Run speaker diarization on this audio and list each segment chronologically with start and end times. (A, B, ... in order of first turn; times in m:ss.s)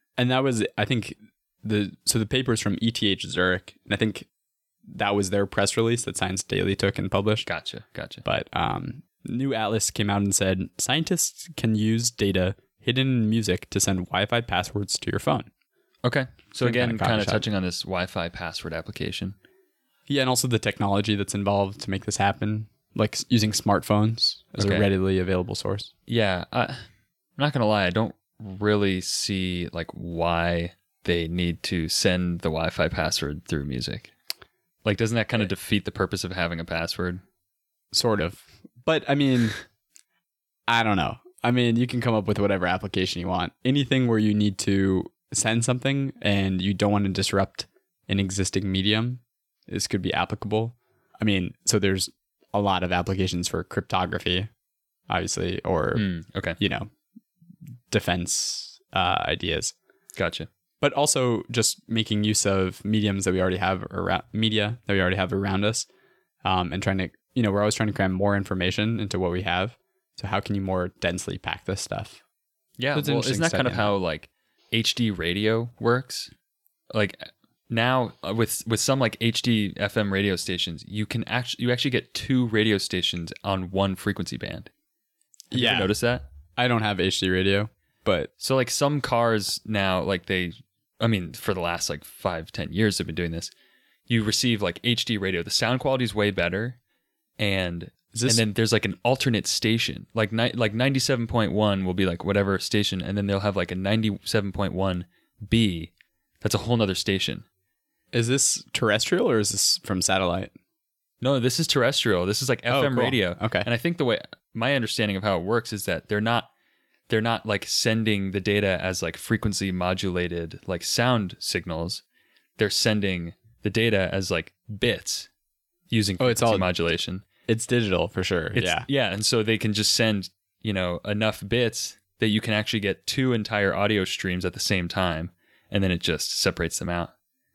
0:00.2-0:04.2 A
0:04.9-0:07.4 A
0:07.4-0:08.2 B
0:08.2-0:15.5 A
0:16.0-0:19.4 B
0:16.6-0:17.4 A
0:20.1-0:25.9 A
0:24.6-0:24.9 B
0:26.1-0:26.8 B
0:27.4-0:34.1 B
0:34.8-0:37.2 B
0:37.9-0:39.6 A
0:40.7-0:54.5 A
0:55.1-0:56.9 A
0:55.9-0:56.6 B
0:57.9-0:59.7 A
1:00.1-1:00.5 B
1:00.8-1:05.9 A
1:06.4-1:12.2 A
1:12.8-1:16.3 B
1:12.9-1:13.9 A
1:16.9-1:24.7 B
1:25.5-1:25.9 A
1:25.5-1:26.2 B
1:26.6-1:28.3 A
1:28.4-1:33.5 B
1:34.1-1:36.8 B
1:37.4-1:47.4 B
1:38.1-1:38.4 A
1:48.1-1:50.5 A
1:51.2-1:56.5 B
1:52.7-1:53.7 A
1:57.1-2:02.0 B
2:02.6-2:05.3 B
2:05.9-2:07.2 B
2:06.2-2:06.7 A
2:07.5-2:08.9 A
2:08.5-2:17.1 B